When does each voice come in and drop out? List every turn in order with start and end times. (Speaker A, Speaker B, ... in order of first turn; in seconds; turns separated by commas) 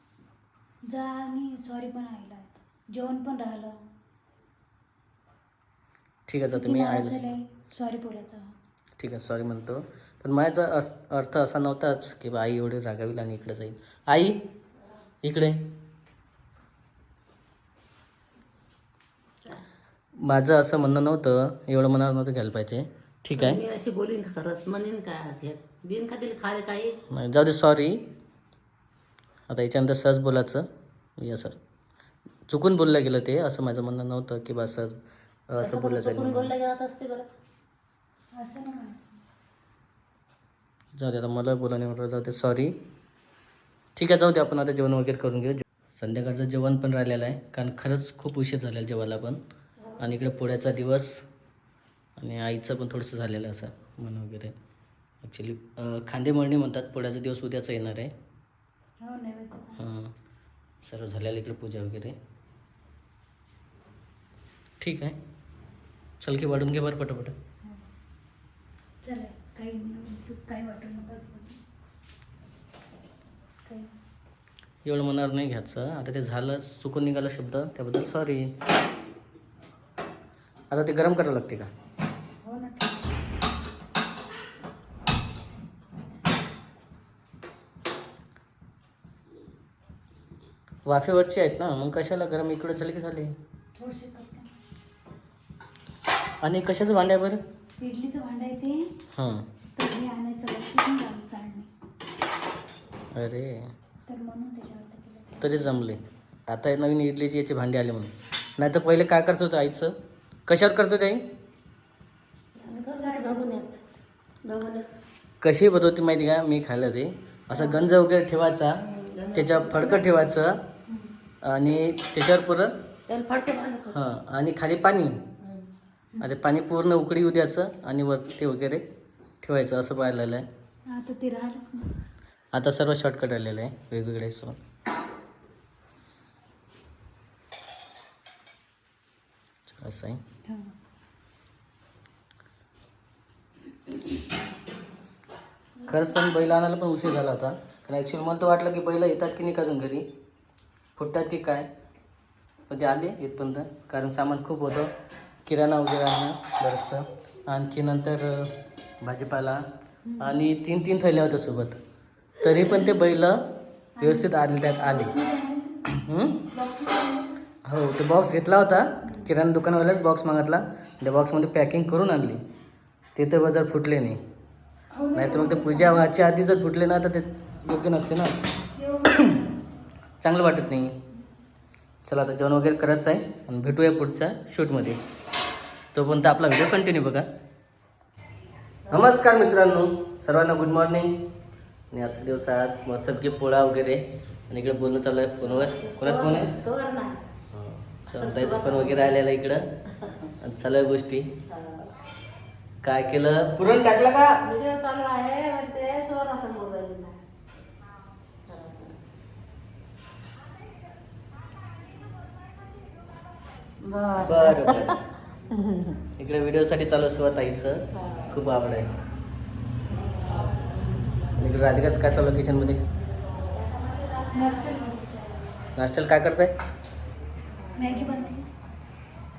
Speaker A: 0.9-3.8, Speaker B: 6.3-7.2, Speaker A: 6.5-8.5, Speaker B: 9.0-14.4, Speaker B: 15.2-15.7, Speaker B: 20.2-23.6, Speaker C: 23.3-27.0, Speaker B: 27.1-28.1, Speaker B: 29.5-30.7, Speaker B: 31.2-31.6, Speaker B: 32.5-36.5, Speaker C: 35.6-37.3, Speaker A: 38.4-39.2, Speaker B: 41.0-42.8, Speaker B: 44.0-49.4, Speaker C: 49.8-50.2, Speaker B: 50.0-51.2, Speaker B: 52.2-54.5, Speaker B: 55.2-58.1, Speaker A: 59.0-59.9, Speaker B: 59.8-60.1, Speaker B: 60.8-62.2, Speaker B: 64.8-65.2, Speaker B: 66.2-67.3, Speaker A: 69.0-71.6, Speaker A: 73.7-74.1, Speaker B: 74.8-78.5, Speaker B: 80.7-81.7, Speaker A: 82.4-83.2, Speaker B: 90.8-93.3, Speaker A: 93.8-94.5, Speaker B: 96.4-97.4, Speaker A: 97.8-99.0, Speaker B: 99.1-99.5, Speaker A: 99.8-101.7, Speaker B: 103.2-103.7, Speaker A: 104.1-105.7, Speaker B: 105.4-110.0, Speaker B: 110.5-111.2, Speaker C: 112.6-113.8, Speaker A: 113.0-113.5, Speaker C: 114.5-114.9, Speaker B: 115.4-118.8, Speaker A: 117.5-117.8, Speaker C: 118.8-120.0, Speaker B: 119.3-120.6, Speaker A: 120.9-121.1, Speaker B: 121.4-122.7, Speaker C: 123.1-124.0, Speaker B: 123.9-125.2, Speaker C: 125.4-125.7, Speaker B: 126.2-128.8, Speaker B: 129.4-130.5, Speaker A: 130.9-132.1, Speaker B: 132.5-134.6, Speaker B: 139.7-140.2, Speaker A: 140.5-140.7, Speaker A: 145.8-146.1, Speaker B: 145.9-150.1, Speaker B: 151.0-151.7, Speaker B: 152.7-154.9, Speaker B: 155.5-159.6, Speaker A: 160.1-160.4, Speaker B: 160.2-161.8, Speaker B: 162.4-163.5, Speaker A: 164.0-165.9, Speaker B: 164.0-165.2, Speaker B: 165.9-166.4, Speaker A: 166.5-167.3, Speaker B: 167.7-172.4, Speaker A: 169.0-169.3, Speaker B: 173.2-174.2, Speaker A: 174.9-176.1, Speaker B: 175.1-178.4, Speaker A: 178.8-179.6, Speaker B: 179.1-179.4, Speaker B: 180.2-180.9, Speaker B: 182.1-185.0, Speaker B: 185.9-187.3, Speaker B: 188.9-191.2, Speaker B: 191.9-196.5, Speaker C: 195.4-197.2, Speaker B: 197.5-199.7, Speaker C: 198.1-199.2, Speaker B: 200.4-201.3, Speaker C: 201.5-201.9, Speaker B: 202.8-204.4, Speaker C: 204.4-207.2, Speaker C: 208.5-209.0, Speaker C: 213.8-215.0, Speaker B: 214.2-215.0, Speaker C: 215.5-216.0, Speaker B: 216.2-218.9, Speaker C: 217.9-218.4, Speaker C: 220.3-220.8, Speaker B: 221.4-222.8, Speaker C: 224.0-224.7, Speaker A: 224.3-225.5, Speaker B: 225.8-226.5, Speaker C: 227.6-228.3, Speaker A: 227.8-228.5